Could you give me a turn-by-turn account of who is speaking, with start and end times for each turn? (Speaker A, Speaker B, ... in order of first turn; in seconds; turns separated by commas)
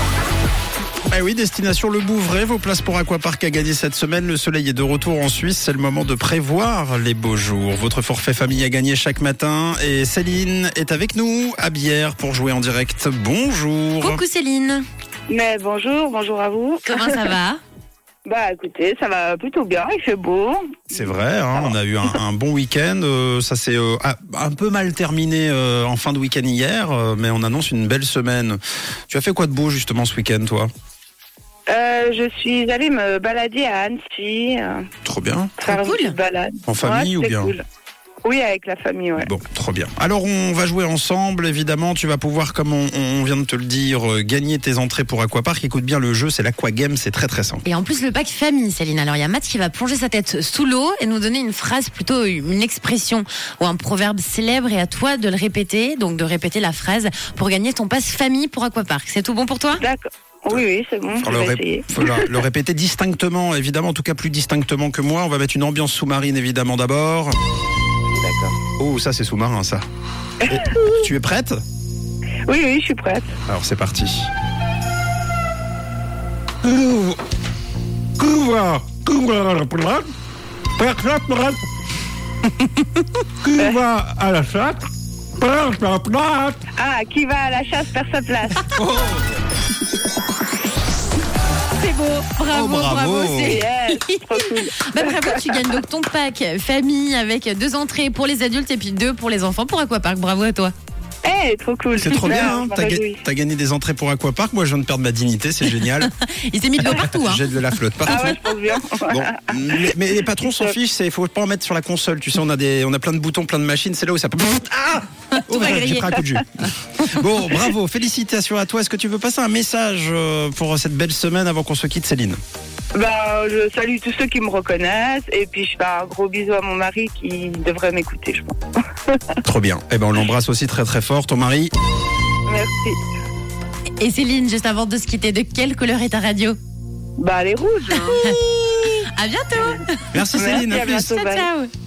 Speaker A: 1.1-14.2, Speaker B: 14.0-14.8, Speaker C: 15.3-17.3, Speaker B: 16.9-17.6, Speaker C: 18.2-21.7, Speaker A: 20.9-30.7, Speaker C: 31.7-34.9, Speaker A: 35.0-35.6, Speaker C: 35.6-37.6, Speaker B: 35.7-36.2, Speaker A: 36.7-37.5, Speaker C: 38.2-39.3, Speaker A: 39.2-47.6, Speaker B: 47.6-59.8, Speaker C: 59.8-62.3, Speaker A: 61.2-67.3, Speaker C: 68.1-68.6, Speaker A: 68.8-69.8, Speaker C: 70.4-70.7, Speaker A: 70.5-71.6, Speaker C: 72.5-73.3, Speaker A: 73.5-74.3, Speaker A: 76.7-77.1, Speaker A: 78.2-80.0, Speaker A: 80.8-81.6, Speaker A: 83.5-84.8, Speaker A: 85.4-86.5, Speaker C: 86.8-88.7, Speaker A: 88.7-89.4, Speaker B: 91.8-100.7, Speaker A: 92.5-93.6, Speaker C: 93.4-95.3, Speaker C: 101.2-103.2, Speaker A: 102.0-106.1, Speaker B: 106.0-107.4, Speaker A: 106.8-108.4, Speaker C: 108.1-109.9, Speaker A: 109.1-122.4, Speaker C: 110.5-110.8, Speaker B: 115.3-116.1, Speaker C: 122.9-128.6, Speaker A: 129.4-131.7, Speaker C: 132.5-133.0, Speaker B: 134.0-136.6, Speaker C: 137.2-138.4, Speaker B: 137.9-140.1, Speaker A: 140.1-141.2, Speaker C: 140.3-141.5, Speaker B: 141.1-141.7